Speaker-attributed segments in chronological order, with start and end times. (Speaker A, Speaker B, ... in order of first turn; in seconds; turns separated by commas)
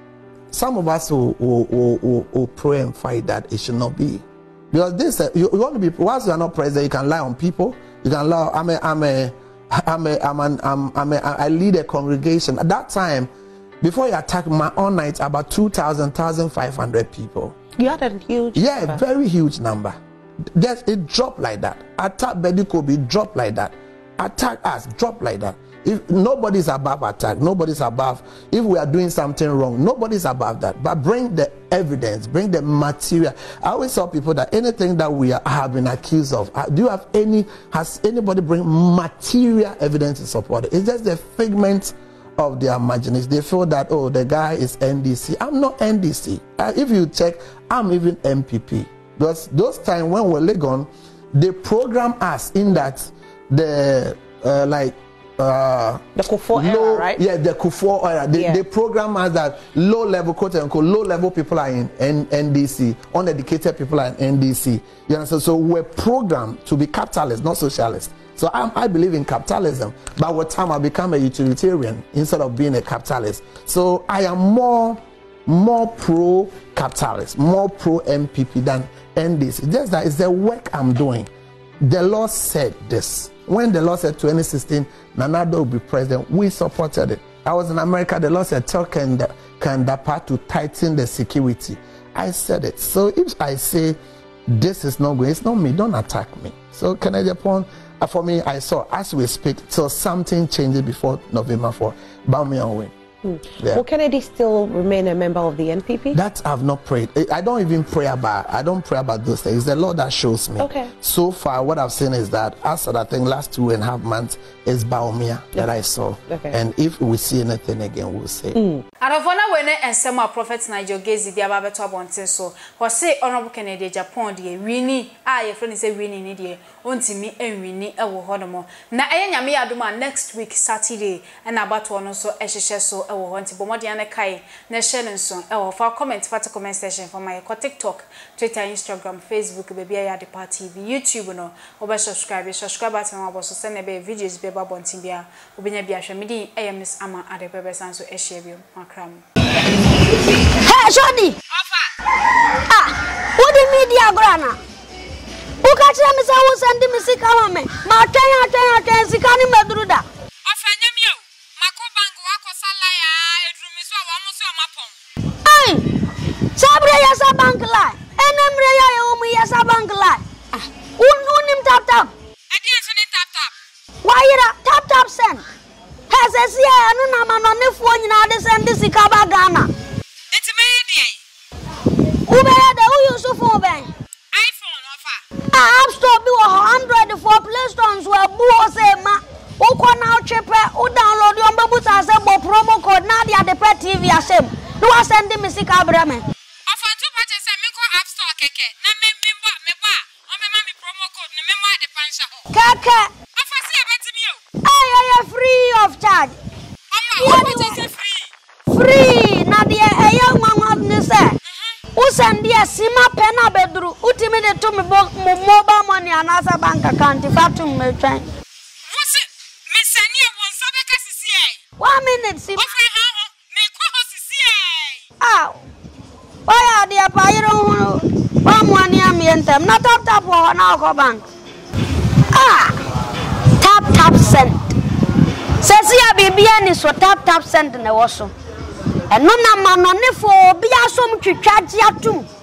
Speaker A: 0.5-13.3, Speaker A: 13.8-17.6, Speaker B: 17.8-19.0, Speaker A: 18.5-20.0, Speaker A: 20.5-81.3, Speaker B: 56.1-57.2, Speaker B: 58.3-58.6, Speaker A: 81.8-94.0, Speaker A: 94.5-102.9, Speaker B: 103.2-106.2, Speaker A: 103.5-103.8, Speaker A: 106.1-118.6, Speaker B: 110.6-110.9, Speaker B: 116.3-116.6, Speaker B: 118.5-118.8, Speaker C: 119.0-149.2, Speaker D: 150.6-151.3, Speaker E: 151.5-151.9, Speaker D: 152.7-154.6, Speaker D: 155.6-160.0, Speaker E: 160.4-165.0, Speaker D: 165.4-165.8, Speaker D: 166.6-172.1, Speaker E: 172.5-173.5, Speaker D: 174.0-175.4, Speaker D: 176.1-179.7, Speaker E: 180.3-181.2, Speaker D: 182.2-183.9, Speaker E: 184.3-185.2, Speaker D: 185.5-196.2, Speaker E: 196.7-202.5, Speaker D: 202.5-203.1, Speaker E: 203.3-204.4, Speaker D: 204.6-206.3, Speaker E: 206.9-208.3, Speaker D: 207.2-207.8, Speaker D: 208.7-211.3, Speaker E: 211.4-211.8, Speaker D: 211.9-218.3, Speaker E: 218.8-221.6, Speaker D: 221.8-222.8, Speaker E: 222.6-225.0, Speaker D: 225.2-225.6, Speaker D: 226.5-231.2, Speaker D: 232.3-232.8, Speaker D: 233.6-234.7, Speaker D: 235.6-238.3, Speaker D: 239.1-242.3